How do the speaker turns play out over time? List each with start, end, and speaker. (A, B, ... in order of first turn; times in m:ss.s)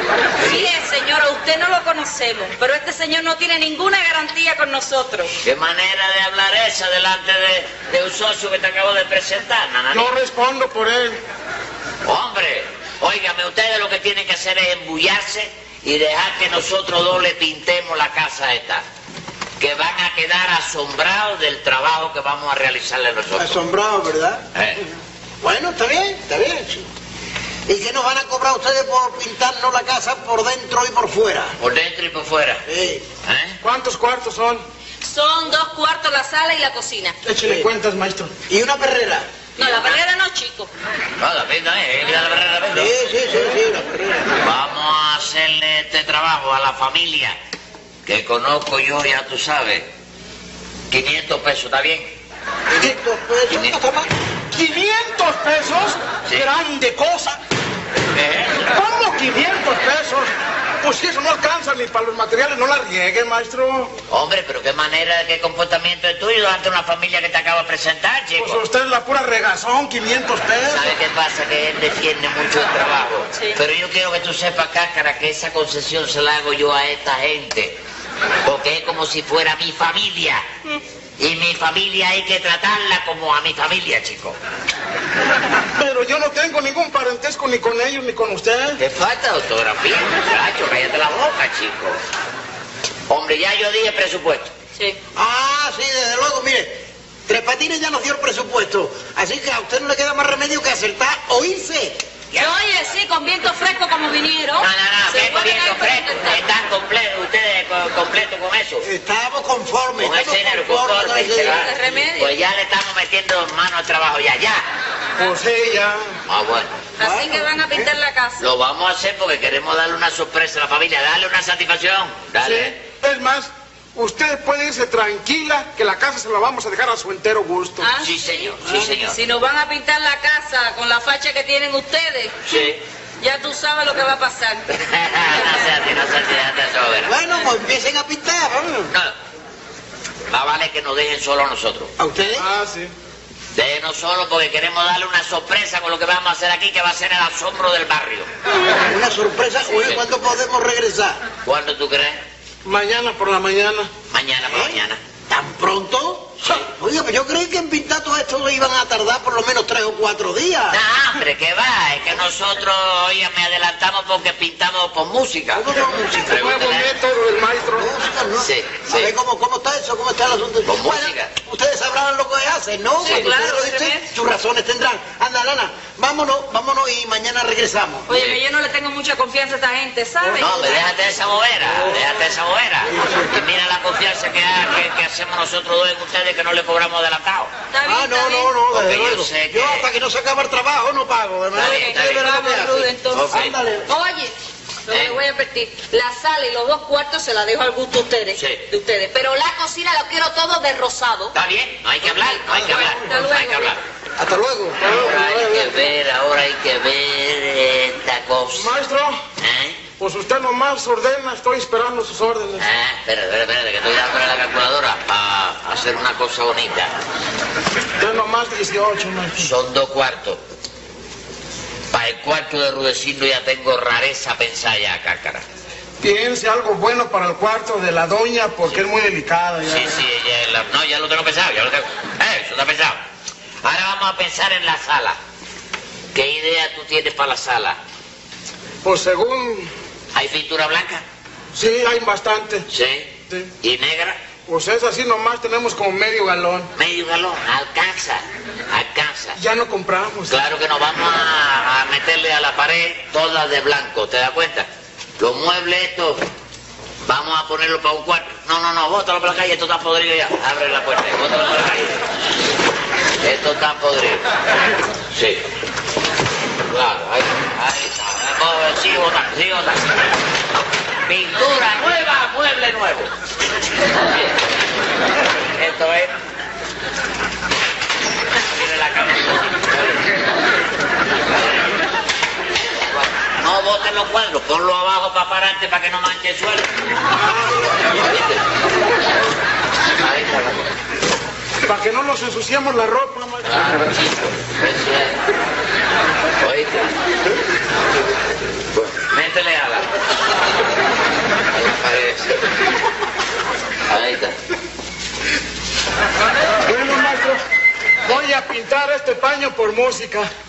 0:00.4-0:00.7 A
0:00.4-0:05.3 B
0:05.4-0:10.1 A
0:09.9-0:11.2 C
0:12.0-0:18.8 A
0:19.6-0:23.6 A
0:23.4-0:24.5 D
0:24.5-0:24.8 A
0:25.4-0:26.8 D
0:27.7-0:31.5 D
0:31.6-0:32.6 A
0:32.6-0:33.0 D
0:33.2-0:33.6 A
0:33.6-0:34.6 C
0:35.0-0:37.2 B
0:37.2-0:38.3 C
0:37.3-0:37.7 D
0:38.5-0:39.3 D
0:39.6-0:40.7 B
0:39.6-0:39.9 A
0:41.2-0:42.9 A
0:42.7-0:44.3 D
0:44.4-0:47.4 A
0:48.0-0:49.9 A
0:50.9-0:52.1 A
0:52.7-0:54.1 D
0:53.5-0:53.8 A
0:54.5-0:57.4 C
0:58.1-0:58.6 A
0:58.6-1:03.9 C
1:04.1-1:08.6 A
1:08.4-1:10.9 C
1:10.6-1:17.8 A
1:18.4-1:20.4 A
1:21.2-1:24.4 A
1:25.8-1:28.8 C
1:28.8-1:32.0 A
1:33.1-1:34.5 A
1:35.1-1:42.0 D
1:42.3-1:46.4 B
1:44.6-1:48.8 A
1:48.8-1:51.7 D
1:50.0-1:54.6 A
1:51.3-1:52.4 B
1:55.2-1:56.1 C
1:56.2-1:56.8 A
1:57.0-1:58.4 B
1:57.0-1:57.9 D
1:58.4-2:02.8 A
2:02.4-2:07.9 C
2:07.8-2:14.6 B
2:08.0-2:09.2 A
2:12.4-2:12.8 A
2:14.7-2:17.1 A
2:17.0-2:18.9 D
2:20.3-2:21.9 A
2:22.0-2:22.5 D
2:22.4-2:22.9 C
2:23.5-2:28.3 A
2:28.8-2:31.2 D
2:29.8-2:30.0 A
2:31.4-2:32.2 A
2:32.6-2:33.9 C
2:34.1-2:35.0 A
2:34.5-2:34.8 D
2:35.3-2:40.8 D
2:40.7-2:45.7 A
2:45.5-2:46.4 D
2:46.3-2:46.9 A
2:46.3-2:47.9 C
2:47.7-2:58.1 D
2:48.4-2:49.1 A
2:50.6-2:51.3 A
2:53.0-2:54.1 B
2:58.1-3:00.9 B
2:58.1-2:58.4 A
3:00.4-3:07.5 A
3:03.0-3:03.3 D
3:07.7-3:08.6 B
3:07.8-3:13.9 D
3:08.7-3:09.9 A
3:11.5-3:12.3 A
3:11.6-3:13.3 B
3:13.1-3:13.5 A
3:13.9-3:14.3 B
3:14.9-3:21.4 B
3:14.9-3:15.2 A
3:18.3-3:18.6 A
3:21.3-3:23.8 A
3:22.0-3:23.8 B
3:24.2-3:24.8 D
3:24.8-3:25.7 C
3:24.8-3:28.7 A
3:28.5-3:29.2 C
3:29.4-3:29.8 A
3:30.0-3:32.7 C
3:32.6-3:36.9 A
3:38.0-3:39.5 C
3:39.4-3:40.4 A
3:41.9-3:45.4 A
3:46.0-3:49.9 C
3:49.6-3:53.0 A
3:53.6-3:55.2 A
3:56.1-3:57.8 A
3:58.8-3:59.7 C
4:00.1-4:01.0 A
4:01.5-4:02.6 C
4:02.7-4:04.2 A
4:04.5-4:06.7 C
4:06.7-4:09.4 A
4:09.3-4:10.4 C
4:10.3-4:14.7 A
4:15.2-4:16.2 A
4:17.0-4:22.0 A
4:23.2-4:24.2 A
4:25.1-4:25.4 A
4:26.7-4:30.0 A
4:31.0-4:33.1 A
4:35.6-4:36.1 A
4:38.4-4:40.1 A
4:43.0-4:46.7 A
4:47.2-4:47.7 C
4:47.8-4:48.4 A
4:50.0-4:50.7 A
4:51.6-4:53.5 C
4:53.4-4:55.2 A
4:56.4-4:56.9 A
4:58.7-4:59.9 A
5:01.5-5:02.4 A
5:03.9-5:04.4 A
5:06.6-5:07.4 C
5:08.0-5:10.3 C